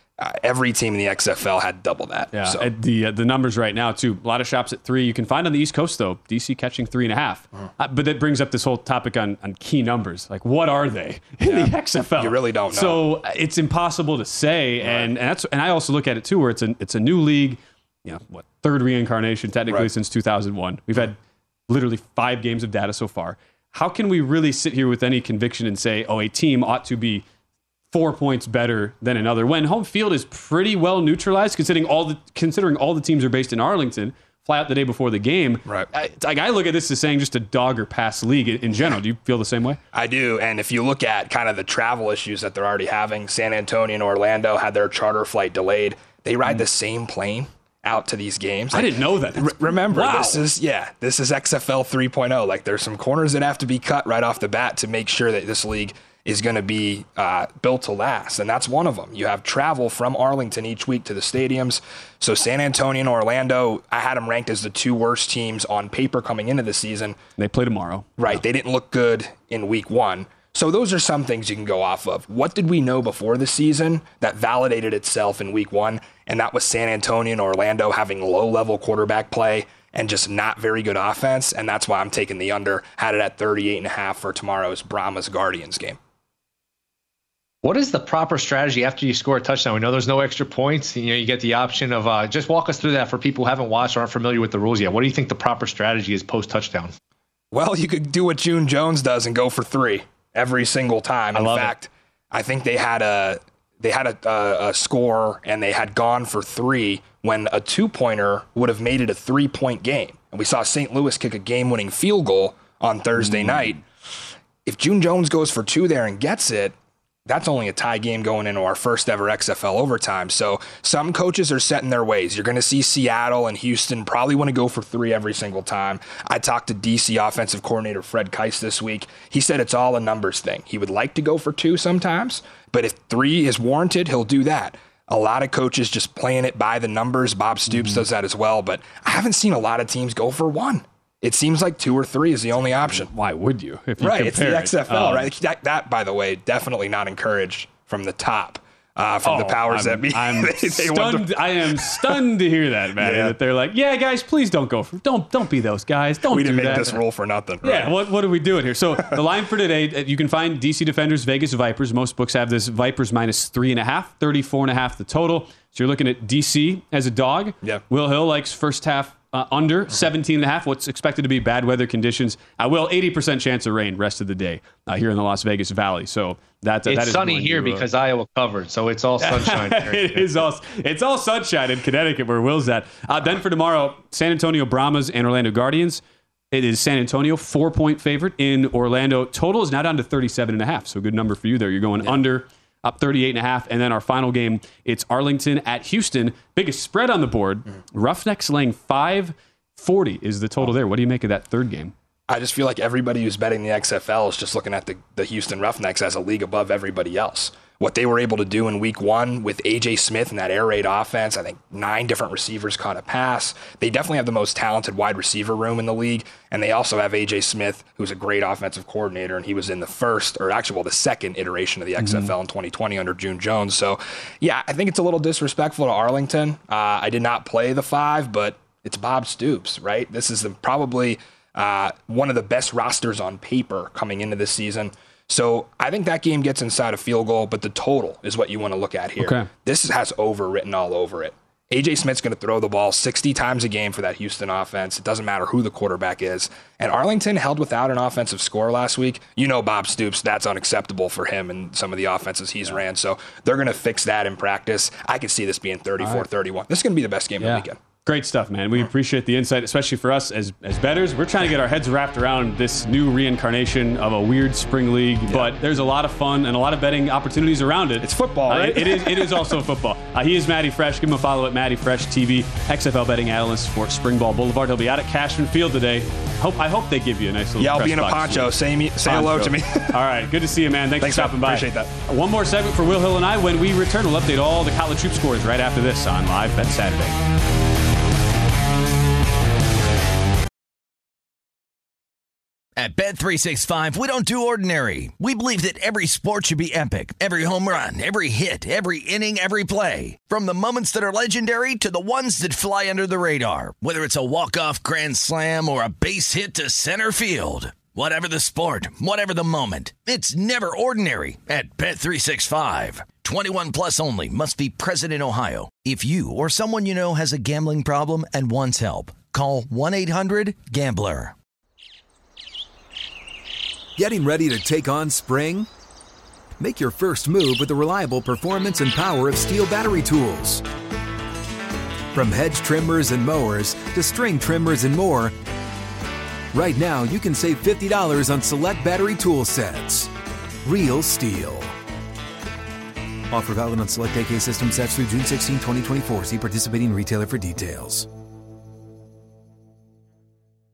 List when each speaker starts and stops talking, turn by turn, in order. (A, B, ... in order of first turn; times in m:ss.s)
0:00.2-0:02.7 A
0:02.3-0:21.2 B
0:11.4-0:13.0 A
0:14.8-0:15.1 A
0:21.7-0:27.2 B
0:27.9-0:39.8 B
0:35.7-0:35.9 A
0:39.9-1:07.2 A
0:48.7-0:50.4 B
1:07.4-1:08.4 B
1:08.2-1:26.0 A
1:27.6-1:36.9 C
1:37.5-1:53.8 A
1:41.3-1:41.7 B
1:53.2-1:53.5 B
1:54.6-1:56.7 A
1:57.3-2:23.1 A
2:17.7-2:18.0 B
2:22.8-2:25.3 B
2:24.0-2:32.2 A
2:29.2-2:37.0 B
2:33.0-2:33.3 A
2:36.3-2:38.0 A
2:37.6-2:57.9 B
2:56.9-3:00.3 C
2:59.2-3:06.0 B
3:06.5-3:21.9 B
3:22.3-4:17.8 A
3:42.0-3:42.3 B
3:59.2-3:59.5 B
4:16.0-4:16.2 B
4:17.4-4:47.1 B
4:28.0-4:29.4 A
4:37.6-4:40.0 A
4:41.0-4:41.9 A
4:52.8-5:21.3 D
5:24.0-5:25.7 E
5:26.6-5:30.6 E
5:32.1-5:35.3 E
5:36.5-5:40.1 E
5:40.6-5:41.7 E
5:43.3-5:48.1 E